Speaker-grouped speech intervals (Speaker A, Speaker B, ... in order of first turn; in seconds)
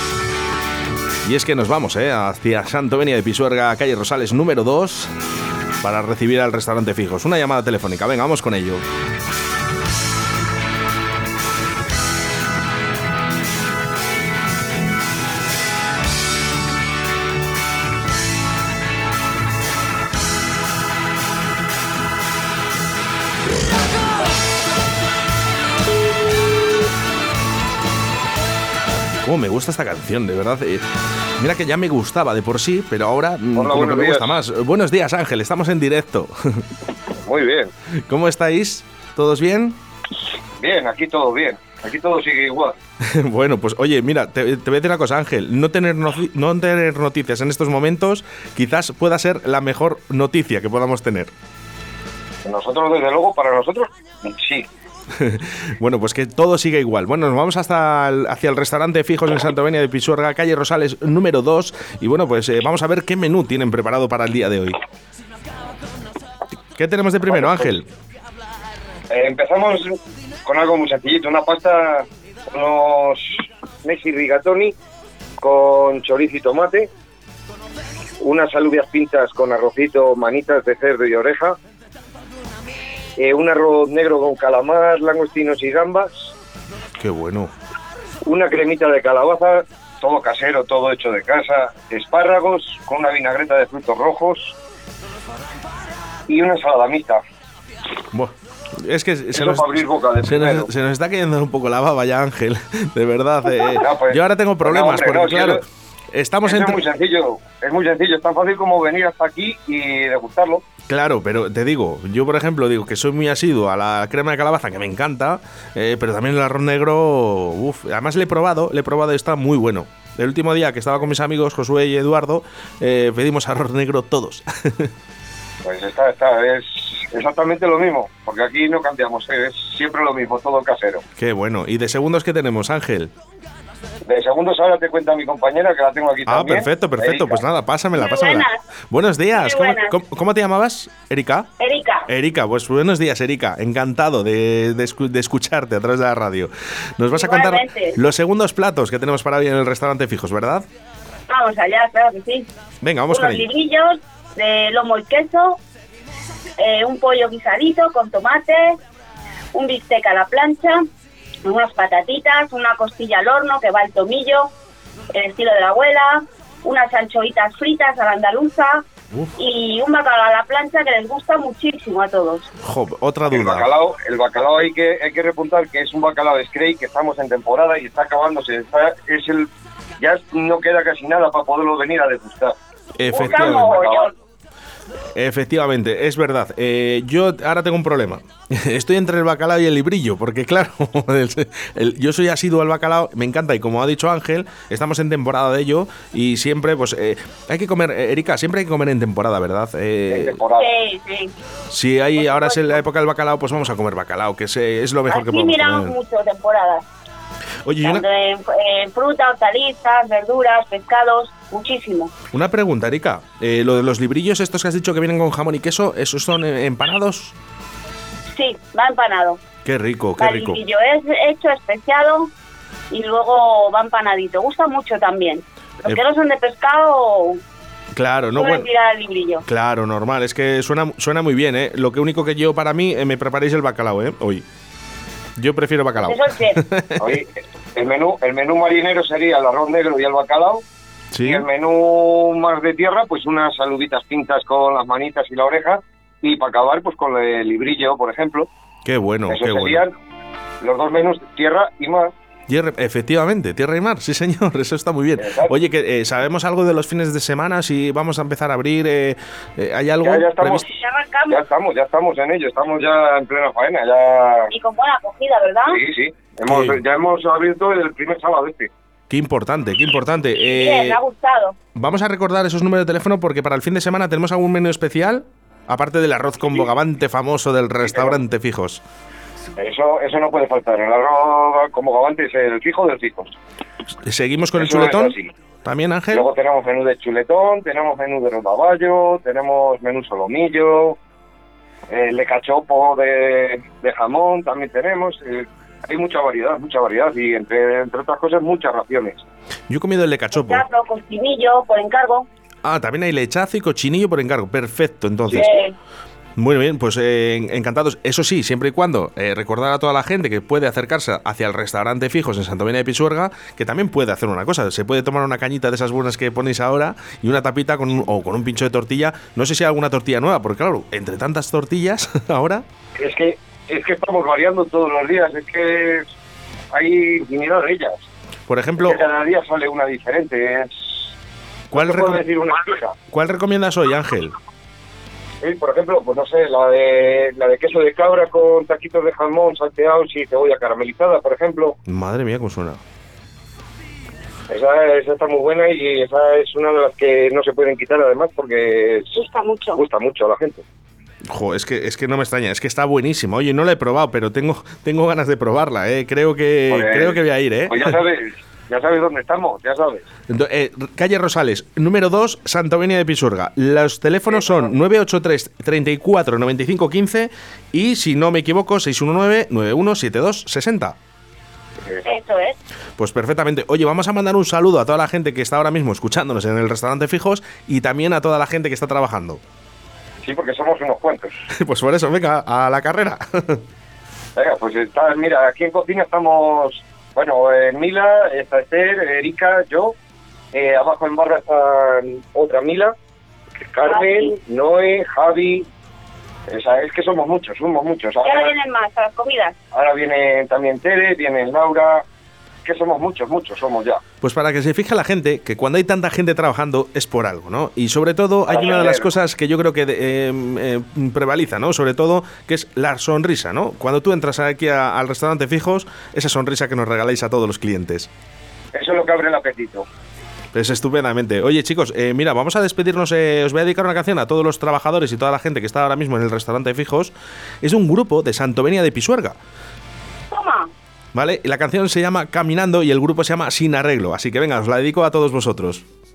Speaker A: 1.2-5.1, 5.8-8.8, 29.2-30.9, 31.4-36.6, 38.1-39.8, 43.0-51.3, 55.1-64.8, 66.8-67.9, 87.0-87.5, 98.1-99.7, 100.2-106.8, 110.9-124.9, 131.2-133.1, 136.3-141.5, 142.1-150.7, 152.8-153.5, 172.6-173.7, 183.0-183.8, 185.2-200.4, 201.7-206.0, 207.6-208.1, 212.3-217.3, 219.6-220.6, 227.9-228.7, 229.5-234.4, 235.4-237.0, 241.1-241.5, 248.8-249.8, 252.5-260.7, 266.5-266.8, 269.1-271.0, 271.8-278.8, 284.1-286.3, 299.7-300.6, 302.6-305.6, 306.4-322.6, 328.5-329.0, 331.7-332.2, 333.1-334.4, 341.9-342.8, 351.3-357.9, 360.3-371.0, 373.0-379.4, 381.6-383.6, 404.2-418.1, 420.5-429.4, 431.1-435.8
Speaker B: 33.5-34.4, 37.2-37.7, 40.6-42.8, 52.5-54.7, 67.3-67.7, 69.1-74.8, 75.4-76.9, 78.2-81.6, 83.2-86.3, 88.2-94.6, 96.3-97.2, 99.3-100.7, 103.8-105.7, 106.4-110.6, 125.6-131.0, 134.1-137.4, 173.3-182.6, 183.2-184.1, 200.1-200.7, 237.0-240.6, 241.2-248.5, 249.3-249.9, 250.6-252.1, 255.2-255.6, 260.0-264.5, 265.7-268.7, 276.4-276.7, 277.9-278.2, 279.6-283.4, 284.6-285.3, 286.1-291.0, 291.9-299.2, 323.0-326.1, 326.7-328.1, 328.8-331.1, 331.7-332.9, 335.4-341.8, 344.5-349.2, 349.7-350.6, 356.7-360.1, 364.3-364.7, 380.2-381.4, 384.4-390.0, 390.5-392.9, 393.7-395.7, 396.5-398.6, 399.7-402.1, 402.6-404.0, 408.5-409.1, 418.7-419.9
Speaker C: 137.9-138.6, 139.3-140.0, 141.6-142.1, 147.1-148.0, 151.3-152.5, 153.1-155.6, 156.6-158.8, 159.5-160.8, 161.4-164.5, 165.1-168.8, 169.4-172.5, 183.1-184.1, 200.6-201.3, 202.2-202.8, 205.1-206.8, 207.8-212.1, 218.3-219.4, 220.2-222.3, 222.9-227.4, 228.4-229.4, 236.0-236.6, 260.6-261.4, 264.5-265.8, 270.5-271.6, 300.3-302.3, 305.3-305.8, 349.1-349.8, 372.0-372.6, 393.9-394.3, 398.2-399.6, 408.6-408.9, 430.3-430.7